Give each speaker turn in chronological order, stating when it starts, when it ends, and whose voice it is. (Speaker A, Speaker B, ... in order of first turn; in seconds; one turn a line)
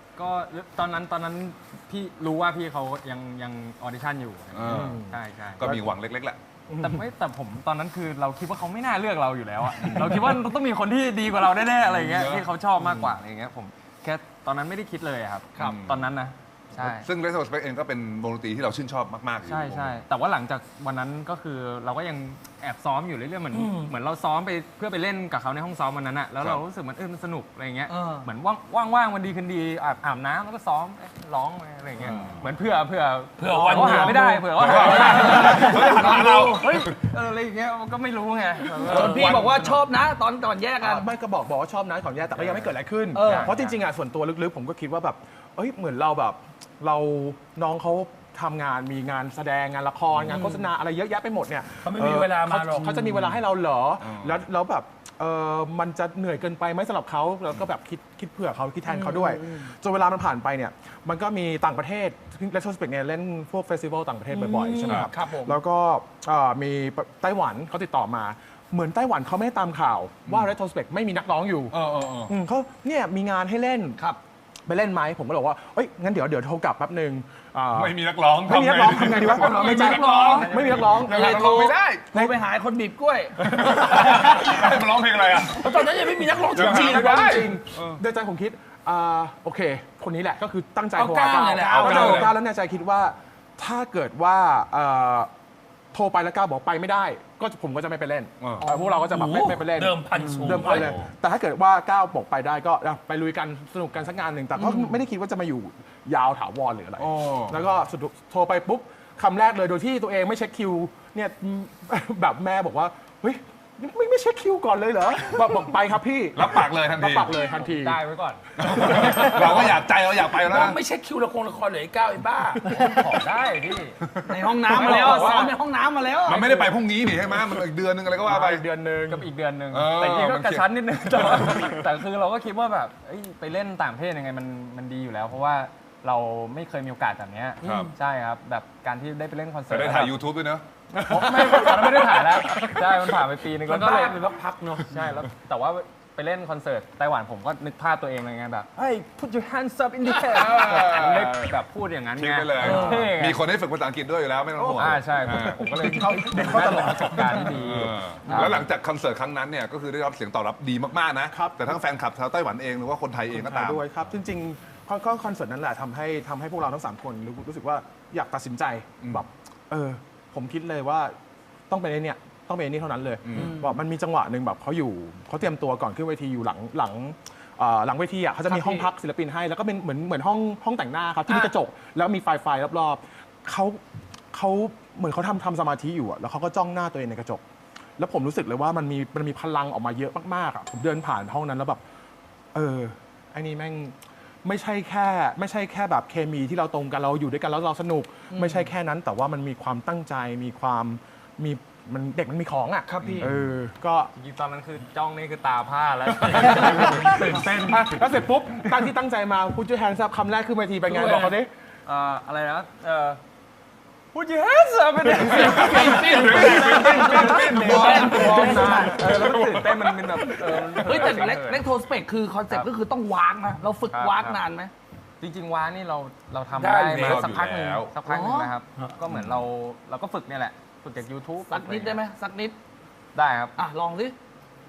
Speaker A: 0.2-5.7
Speaker B: 4.5-5.0
Speaker C: 4.7-5.9
Speaker B: 5.6-6.4
Speaker C: 6.7-7.0
Speaker A: 6.8-17.1
Speaker B: 9.8-10.4
Speaker B: 11.8-12.5
Speaker C: 12.8-13.2
Speaker B: 15.6-16.1
Speaker B: 16.8-20.0
Speaker A: 19.5-39.3
Speaker D: 23.5-23.9
Speaker D: 27.9-28.3
Speaker B: 32.0-32.5
Speaker D: 33.4-35.7
Speaker C: 33.7-34.2
Speaker B: 34.5-37.0
Speaker E: 34.8-36.6
Speaker E: 38.8-41.1
Speaker D: 38.8-39.3
Speaker B: 38.9-39.8
Speaker C: 40.8-74.0
Speaker A: 42.4-43.8
Speaker E: 43.2-43.5
Speaker E: 50.3-50.7
Speaker D: 51.8-53.4
Speaker B: 54.0-54.4
Speaker E: 58.9-59.7
Speaker E: 64.3-65.6
Speaker B: 64.8-65.1
Speaker B: 71.7-72.3
Speaker C: 74.7-81.3
Speaker B: 77.7-82.1
Speaker D: 79.3-80.8
Speaker E: 79.5-84.6
Speaker B: 83.4-85.9
Speaker D: 85.5-87.2
Speaker C: 86.5-95.3
Speaker B: 86.5-88.0
Speaker D: 91.0-92.3
Speaker B: 91.6-92.3
Speaker C: 95.9-118.0
Speaker B: 98.4-98.7
Speaker E: 98.6-98.9
Speaker D: 99.0-100.9
Speaker B: 100.5-101.1
Speaker E: 104.6-105.0
Speaker B: 107.0-107.6
Speaker B: 116.4-117.3
Speaker A: 117.5-119.2
Speaker B: 118.6-120.8
Speaker C: 118.7-119.7
Speaker D: 119.3-119.6
Speaker D: 120.3-122.7
Speaker A: 122.7-124.0
Speaker B: 124.1-125.0
Speaker E: 124.2-126.7
Speaker A: 124.7-125.5
Speaker C: 124.8-125.5
Speaker B: 126.2-128.6
Speaker C: 128.2-129.3
Speaker A: 129.1-140.2
Speaker B: 129.7-131.8
Speaker D: 137.6-137.9
Speaker B: 137.6-137.9
Speaker B: 139.7-140.7
Speaker C: 140.9-142.9
Speaker A: 141.0-144.2
Speaker D: 143.7-144.9
Speaker A: 144.9-153.4
Speaker B: 150.1-151.5
Speaker B: 152.2-155.6
Speaker D: 152.6-153.0
Speaker C: 154.6-157.7
Speaker A: 154.8-158.6
Speaker B: 157.5-163.9
Speaker C: 158.3-158.6
Speaker C: 161.3-161.8
Speaker C: 163.3-171.2
Speaker C: 171.7-183.8
Speaker B: 173.2-173.5
Speaker E: 173.3-173.8
Speaker E: 178.5-178.9
Speaker C: 184.3-187.4
Speaker C: 188.0-191.8
Speaker C: 192.5-204.1
Speaker E: 198.3-198.7
Speaker D: 202.9-203.3
Speaker A: 204.2-208.2
Speaker C: 206.3-211.5
Speaker A: 210.9-213.2
Speaker A: 214.1-221.7
Speaker B: 215.1-221.1
Speaker D: 215.5-216.2
Speaker E: 215.9-219.1
Speaker E: 220.8-224.7
Speaker A: 223.9-224.4
Speaker A: 225.2-232.0
Speaker D: 226.6-227.3
Speaker B: 227.0-227.9
Speaker E: 228.1-228.5
Speaker B: 229.1-229.4
Speaker E: 231.5-232.6
Speaker A: 233.1-233.6
Speaker E: 233.6-234.2